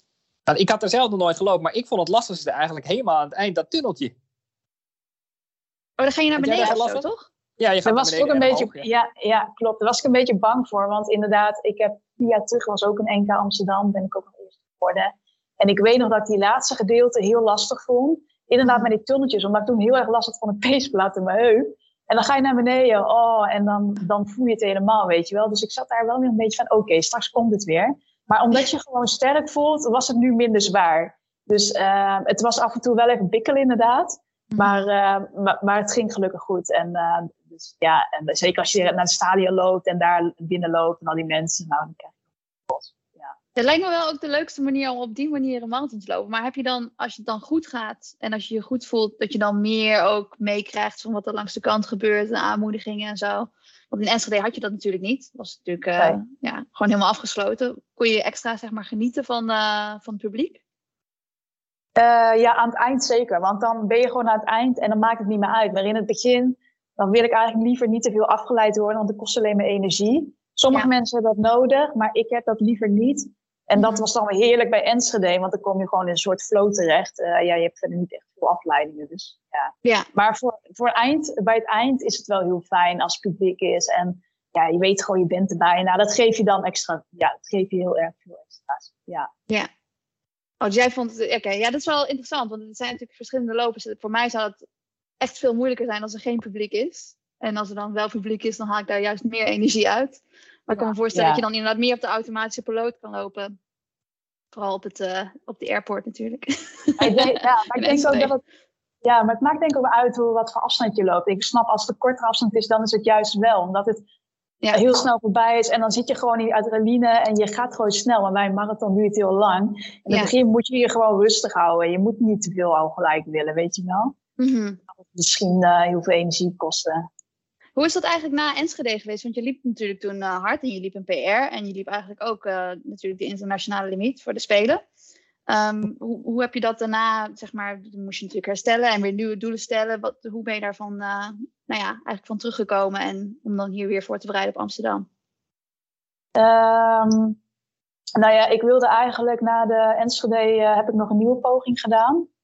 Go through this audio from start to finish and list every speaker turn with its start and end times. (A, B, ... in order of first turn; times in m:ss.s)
0:00.5-0:04.1 A
0:06.0-0:07.2 B
0:06.4-0:07.0 A
0:06.5-0:06.8 C
0:07.6-0:08.8 A
0:07.8-0:43.3 C
0:43.6-1:00.6 B
1:02.0-1:29.3 C
1:13.8-1:14.0 B
1:30.6-1:34.6 B
1:35.2-1:43.6 B
1:40.8-1:41.4 C
1:44.5-1:48.3 B
1:47.0-1:48.4 C
1:49.0-1:54.0 C
1:54.7-2:04.2 C
2:04.4-2:04.8 B
2:05.0-2:07.1 C
2:07.8-2:14.8 B
2:15.5-2:25.0 B
2:26.4-2:27.4 C
2:28.2-2:32.3 C